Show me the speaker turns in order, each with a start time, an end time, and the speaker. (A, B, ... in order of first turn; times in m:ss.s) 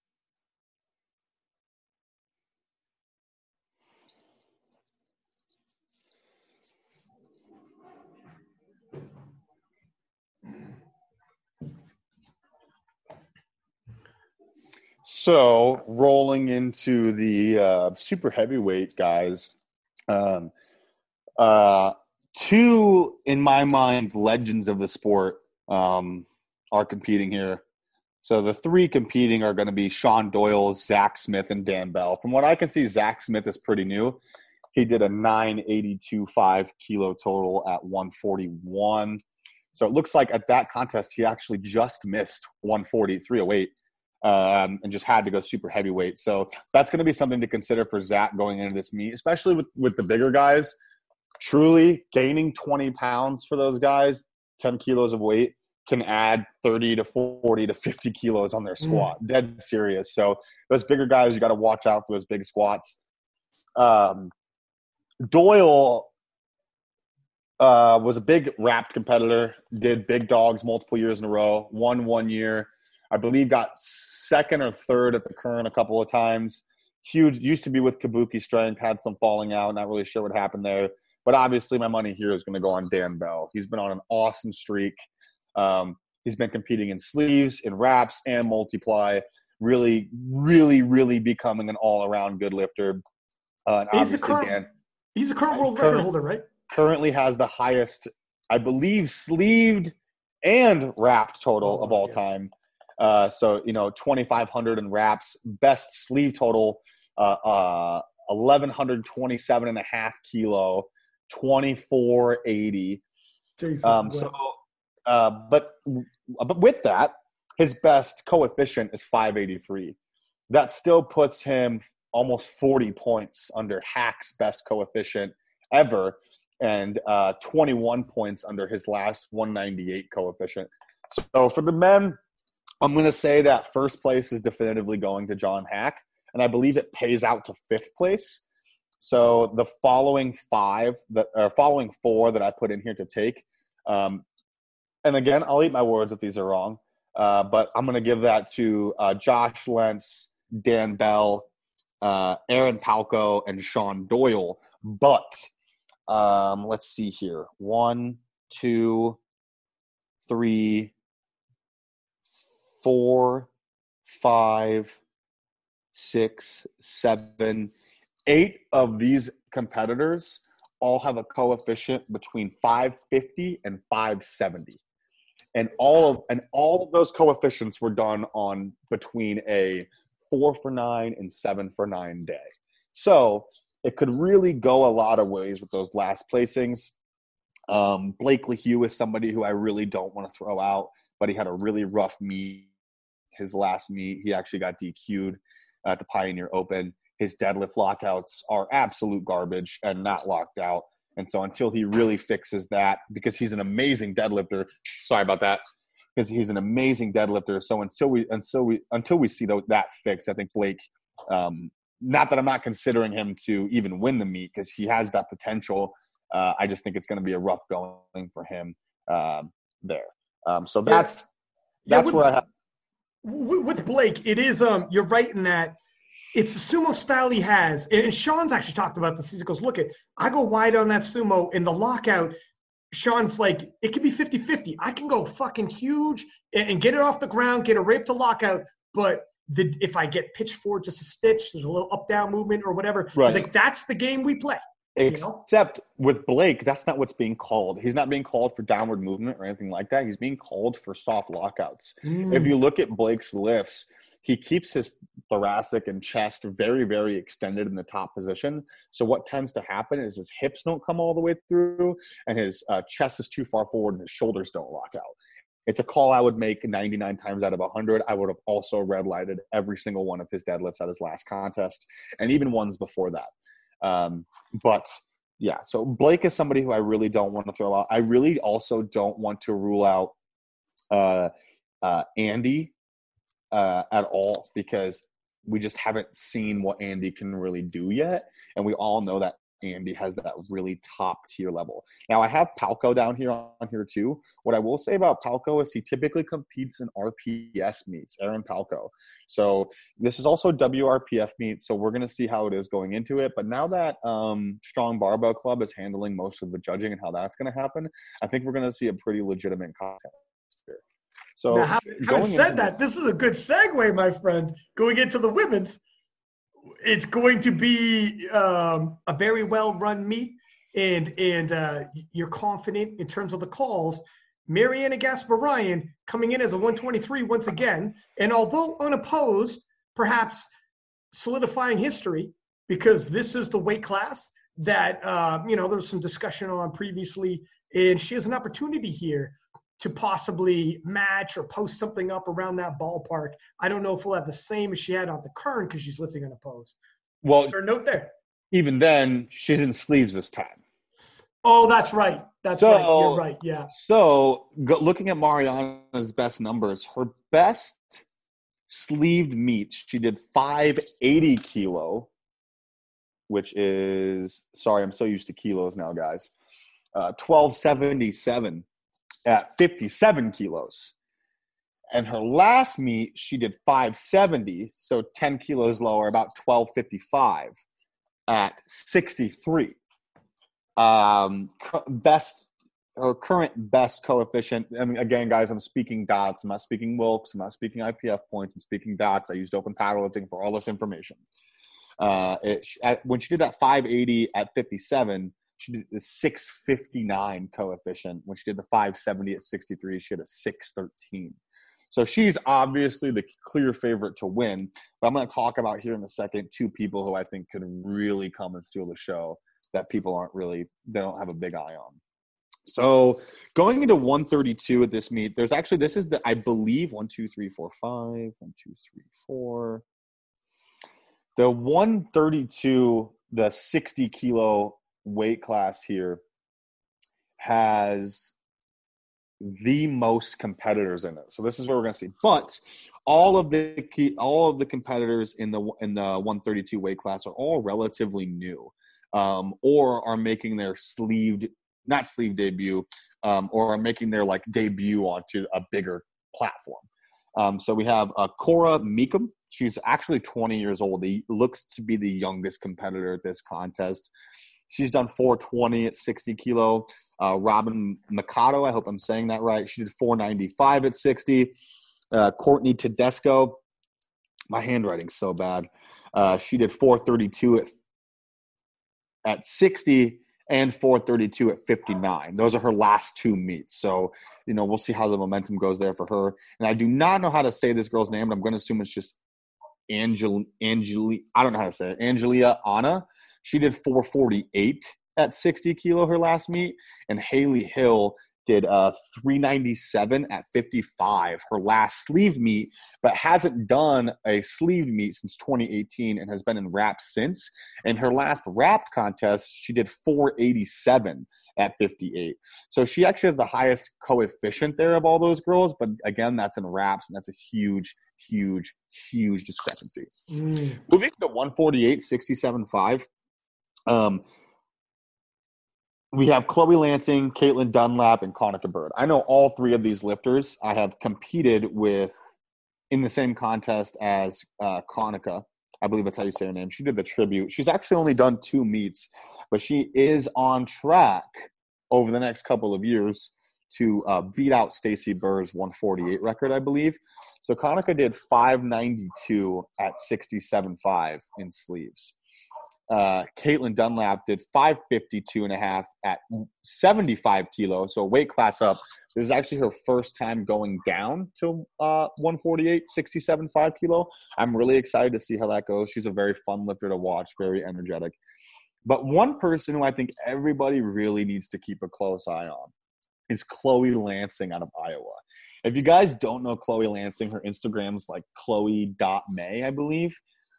0:15.0-0:19.5 A
0:20.1-0:20.5 A
0:21.4-0:27.6 A
0:28.2-0:34.2 A
0:34.7-0:39.2 A
0:39.7-0:50.8 A
0:51.4-1:03.0 A
0:58.8-0:59.1 B
1:03.8-1:04.3 A
1:05.3-1:06.1 A
1:07.6-1:25.0 A
1:25.5-1:33.0 A
1:33.7-1:34.7 A
1:33.9-1:34.6 B
1:35.2-1:36.4 B
1:35.5-1:36.1 A
1:36.7-1:53.0 A
1:41.6-1:42.2 B
1:53.6-1:54.3 B
1:53.8-2:00.0 A
2:00.5-2:12.2 A
2:12.8-2:18.4 A
2:19.0-2:24.2 A
2:25.0-2:31.5 A
2:32.0-2:35.5 A
2:36.1-2:39.2 A
2:40.2-2:40.9 A
2:42.8-2:43.5 A
2:44.0-2:45.0 A
2:45.9-2:47.7 A
2:48.2-2:54.8 A
2:55.5-3:06.9 A
3:07.7-3:12.7 A
3:13.3-3:25.6 A
3:26.2-3:41.3 A
3:41.8-3:42.3 B
3:41.8-3:42.4 A
3:43.2-3:45.8 B
3:46.3-3:52.3 B
3:52.9-4:05.4 B
4:03.1-4:03.5 A
4:05.0-4:25.2 A
4:12.0-4:12.6 B
4:25.7-4:33.3 A
4:33.8-4:40.1 A
4:40.9-4:41.3 A
4:41.8-4:42.7 A
4:43.5-5:10.8 A
5:11.4-5:12.7 A
5:11.5-5:15.8 B
5:16.8-5:30.5 B
5:31.1-5:46.8 B
5:47.2-5:47.5 A
5:47.4-5:48.1 B
5:48.5-5:50.6 A
5:51.4-5:53.7 B
5:52.6-5:58.0 A
5:58.7-6:02.1 A
6:03.3-6:06.3 A
6:06.9-6:08.6 A
6:09.2-6:10.9 A
6:11.9-6:17.6 A
6:18.3-6:19.8 A
6:20.8-6:31.2 A
6:32.0-6:41.4 A
6:41.9-6:52.0 A
6:52.6-6:59.8 A
7:01.4-7:06.2 A
7:07.4-7:08.3 A
7:09.4-7:34.1 A
7:34.7-7:41.5 A
7:42.1-7:43.6 A
7:44.5-7:47.7 A
7:49.2-7:59.2 A
7:59.9-8:30.1 A
8:30.3-8:30.8 B
8:30.8-8:33.0 A
8:33.9-8:34.2 A
8:36.1-8:42.2 A
8:42.9-9:02.1 A
9:02.9-9:18.2 A
9:18.8-9:22.7 A
9:23.3-9:30.2 A